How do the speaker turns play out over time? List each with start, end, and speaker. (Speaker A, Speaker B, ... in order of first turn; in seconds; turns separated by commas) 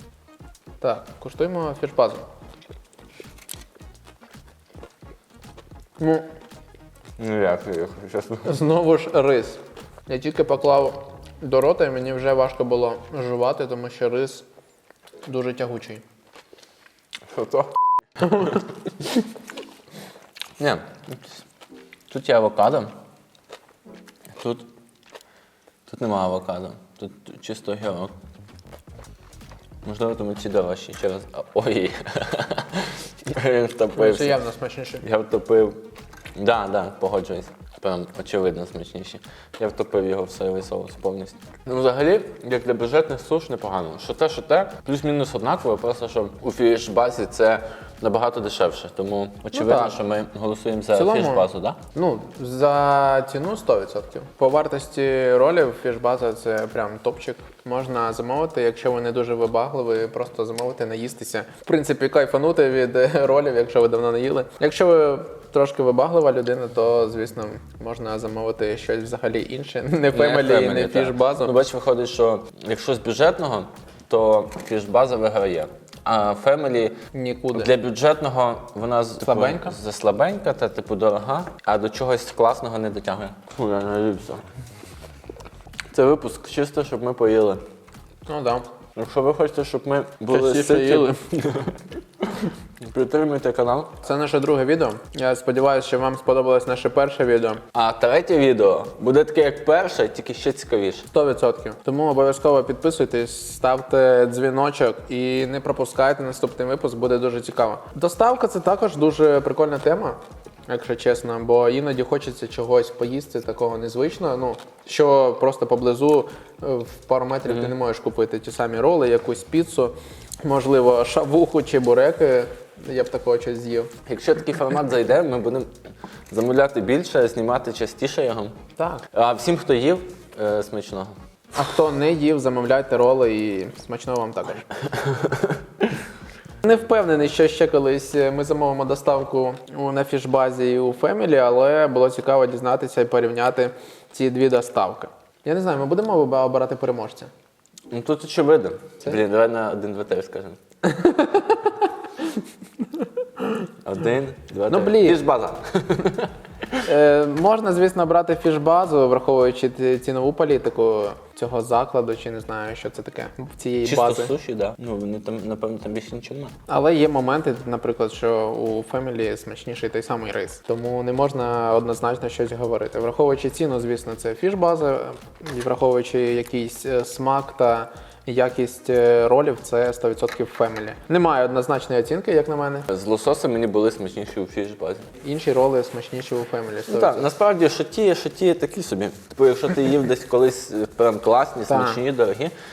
Speaker A: 0.8-2.2, Speaker A: 6.0-6.2, Speaker B: 7.2-8.6, Speaker A: 8.4-14.4, Speaker A: 15.2-16.0, Speaker B: 17.3-18.6, Speaker A: 18.3-18.6, Speaker B: 20.6-21.4, Speaker B: 22.1-22.9, Speaker B: 24.3-24.7, Speaker B: 25.9-28.1, Speaker B: 29.8-34.4, Speaker A: 33.9-35.0, Speaker B: 35.0-35.8, Speaker B: 36.4-51.8, Speaker A: 49.5-50.0, Speaker A: 50.9-71.5, Speaker B: 70.1-77.0, Speaker A: 77.1-77.7, Speaker B: 77.5-84.4, Speaker A: 79.2-79.8, Speaker B: 85.9-87.6, Speaker A: 88.3-88.7, Speaker B: 89.0-94.0, Speaker A: 90.3-91.2, Speaker A: 94.0-97.6, Speaker B: 97.7-101.1, Speaker A: 101.1-123.9, Speaker B: 124.0-125.7, Speaker B: 126.3-128.6, Speaker A: 128.8-129.1, Speaker B: 129.1-131.1, Speaker A: 131.5-134.7, Speaker A: 136.6-147.3, Speaker B: 147.9-150.6, Speaker A: 150.8-151.7, Speaker B: 153.8-156.8, Speaker A: 154.7-155.2, Speaker A: 156.9-164.3, Speaker B: 163.8-166.5, Speaker A: 166.7-182.9, Speaker B: 182.9-185.1, Speaker A: 185.2-187.3, Speaker B: 186.9-192.5, Speaker A: 191.7-192.0